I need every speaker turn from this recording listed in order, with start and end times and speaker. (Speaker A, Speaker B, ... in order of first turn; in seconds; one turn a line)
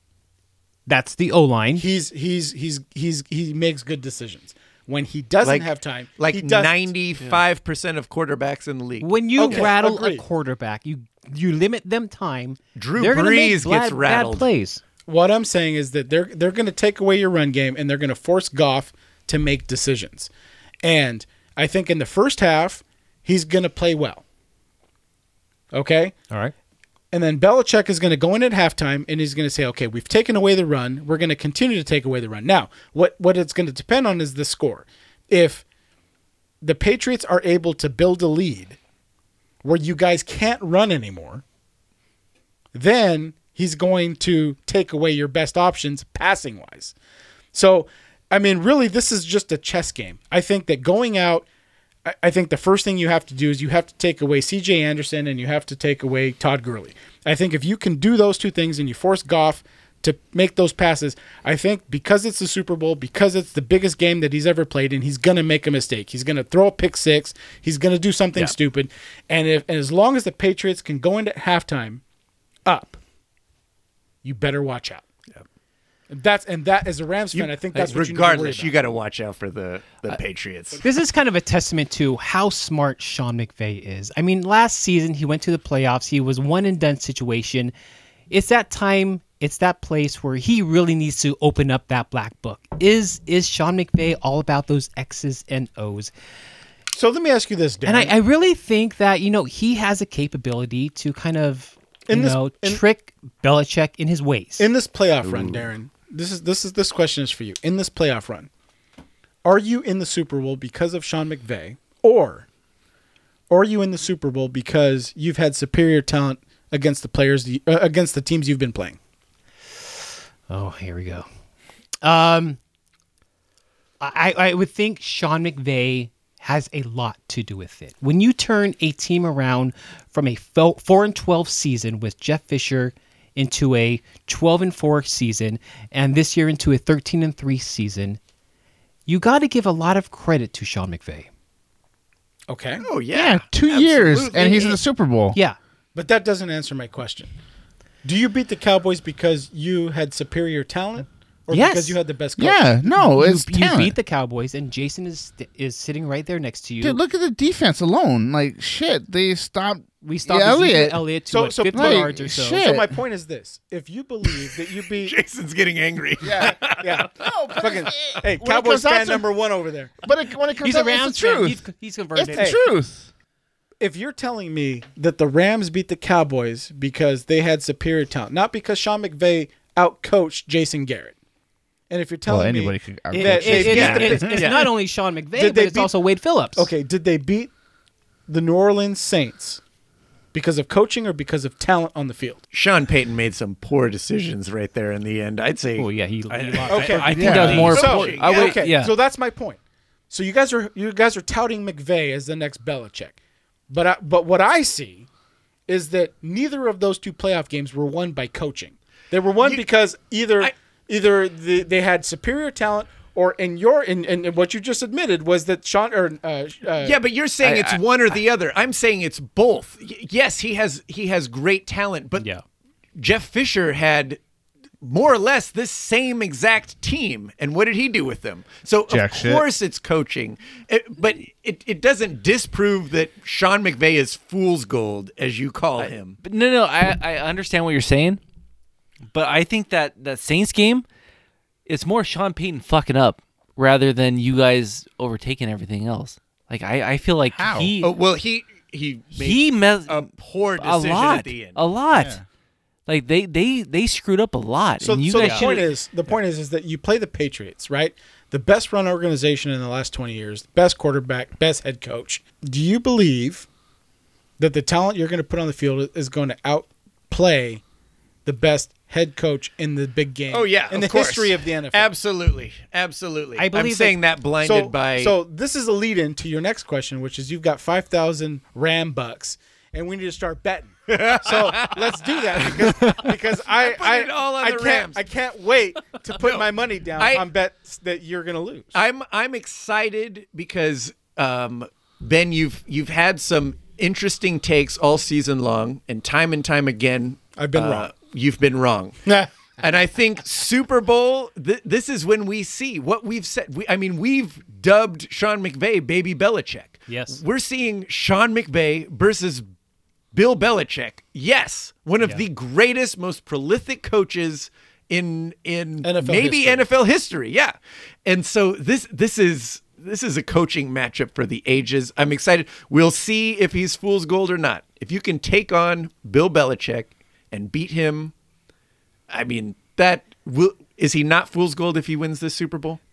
Speaker A: 0.9-1.9
Speaker B: 1.8-6.8
Speaker C: 5.4-9.7
Speaker A: 9.0-14.8
Speaker B: 9.4-10.2
Speaker C: 12.8-14.5
Speaker B: 15.1-20.3
Speaker B: 20.8-24.2
Speaker B: 25.7-26.2
Speaker B: 27.1-35.6
Speaker B: 36.6-38.8
Speaker B: 39.6-41.4
Speaker B: 42.7-46.9
Speaker B: 47.5-51.5
Speaker B: 52.0-72.0
Speaker B: 72.7-73.0
Speaker B: 74.2-75.0
Speaker B: 76.1-78.7
Speaker C: 77.3-80.8
Speaker A: 80.8-87.7
Speaker A: 88.3-96.1
Speaker B: 96.9-98.2
Speaker A: 97.8-104.7
Speaker B: 102.1-102.8
Speaker B: 104.6-108.5
Speaker C: 105.2-105.7
Speaker B: 109.4-112.5
Speaker B: 113.5-119.0
Speaker A: 120.5-121.3
Speaker A: 122.0-122.6
Speaker A: 124.0-138.2
Speaker A: 139.1-141.3
Speaker B: 142.5-142.8
Speaker C: 142.8-144.8
Speaker D: 143.1-145.4
Speaker B: 145.9-147.3
Speaker B: 148.0-152.7
Speaker A: 151.5-152.0
Speaker D: 152.4-154.0
Speaker A: 152.9-157.0
Speaker D: 156.8-161.0
Speaker A: 160.0-162.6
Speaker B: 161.3-165.2
Speaker D: 161.7-162.9
Speaker C: 165.0-167.1
Speaker D: 166.2-169.3
Speaker B: 166.4-169.9
Speaker D: 170.0-171.6
Speaker A: 170.6-172.6
Speaker D: 172.2-173.1
Speaker B: 173.8-181.2
Speaker B: 181.9-184.6
Speaker D: 182.3-184.4
Speaker A: 183.1-186.7
Speaker C: 183.7-184.7
Speaker B: 185.4-185.9
Speaker B: 186.6-187.5
Speaker B: 188.3-189.6
Speaker B: 190.3-192.4
Speaker C: 192.5-198.7
Speaker A: 195.8-197.9
Speaker B: 196.7-199.6
Speaker E: 196.9-198.9
Speaker D: 197.1-197.9
Speaker B: 200.1-203.2
Speaker B: 203.7-205.1
Speaker B: 205.7-217.0
Speaker C: 216.8-222.3
Speaker E: 217.4-217.8
Speaker A: 222.2-222.4
Speaker C: 223.0-224.2
Speaker C: 224.8-236.2
Speaker D: 228.9-229.5
Speaker E: 235.8-238.2
Speaker E: 239.1-240.8
Speaker E: 241.7-247.8
Speaker D: 247.3-247.7
Speaker A: 247.5-247.9
Speaker C: 247.8-251.6
Speaker E: 249.2-252.2
Speaker D: 251.9-252.2
Speaker E: 252.9-255.7
Speaker B: 254.8-263.5
Speaker C: 255.2-255.6
Speaker B: 264.4-267.6
Speaker B: 268.2-271.9
Speaker C: 270.3-275.2
Speaker A: 273.4-274.0
Speaker B: 274.4-288.8
Speaker C: 280.9-282.9
Speaker C: 283.5-285.0
Speaker C: 286.2-287.2
Speaker C: 288.7-299.0
Speaker B: 297.4-297.9
Speaker C: 299.6-309.4
Speaker A: 306.9-307.2
Speaker C: 310.1-317.5
Speaker B: 315.8-316.7
Speaker C: 318.1-328.1
Speaker C: 329.1-332.8